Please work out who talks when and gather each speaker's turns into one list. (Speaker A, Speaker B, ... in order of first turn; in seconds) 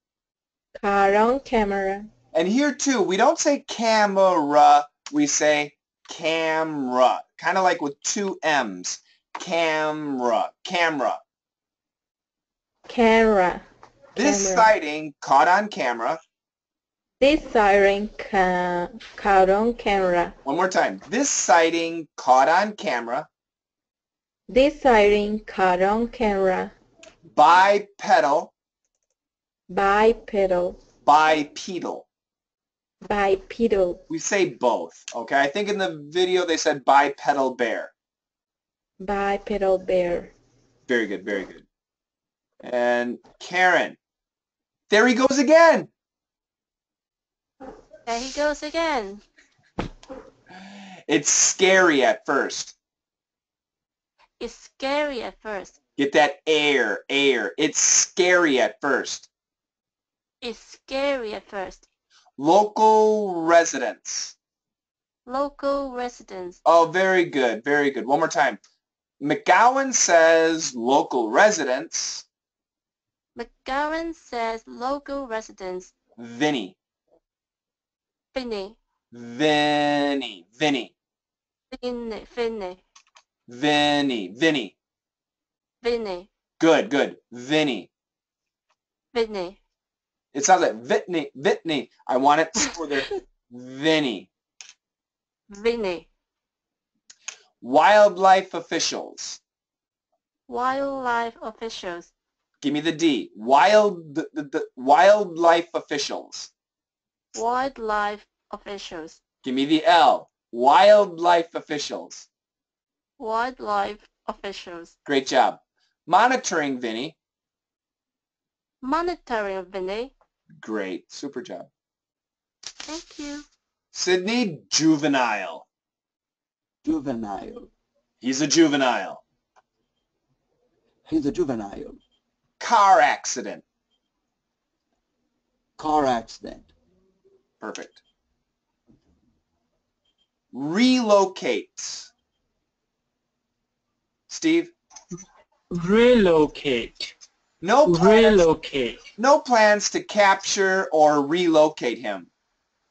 Speaker A: 0.8-2.1, 12.9-13.6, 14.2-14.7, 17.2-20.3, 24.5-26.7, 29.7-30.8, 33.0-34.0, 39.0-40.3
Speaker B: 2.3-11.2, 14.2-16.2, 20.4-23.3, 27.3-28.5, 31.1-32.1, 34.1-37.9, 40.9-41.6, 42.6-44.0, 44.9-45.9, 51.1-52.8, 56.0-59.3, 62.4-64.3, 66.7-68.6, 69.2-72.2, 76.2-76.8, 79.1-80.9, 83.5-84.8, 86.6-87.9, 90.3-94.3, 97.6-99.4, 102.6-106.5, 109.4-112.3, 115.1-117.2, 120.6-121.7, 123.9-125.7, 128.2-129.2, 132.6-133.6, 137.6-138.0, 140.5-142.1, 144.3-144.7, 147.6-148.5, 149.2-152.3
Speaker C: 48.1-49.2, 54.4-55.8, 60.4-61.8, 65.3-66.6, 73.4-75.9, 78.3-78.8, 81.7-82.8, 85.8-86.3, 89.1-89.6, 95.5-96.1, 100.5-102.1, 107.3-109.2, 113.2-114.9, 118.8-120.1, 122.9-123.5
Speaker D: 126.8-127.7, 131.1-132.0, 135.8-136.7
Speaker E: 145.7-147.1, 147.9-149.0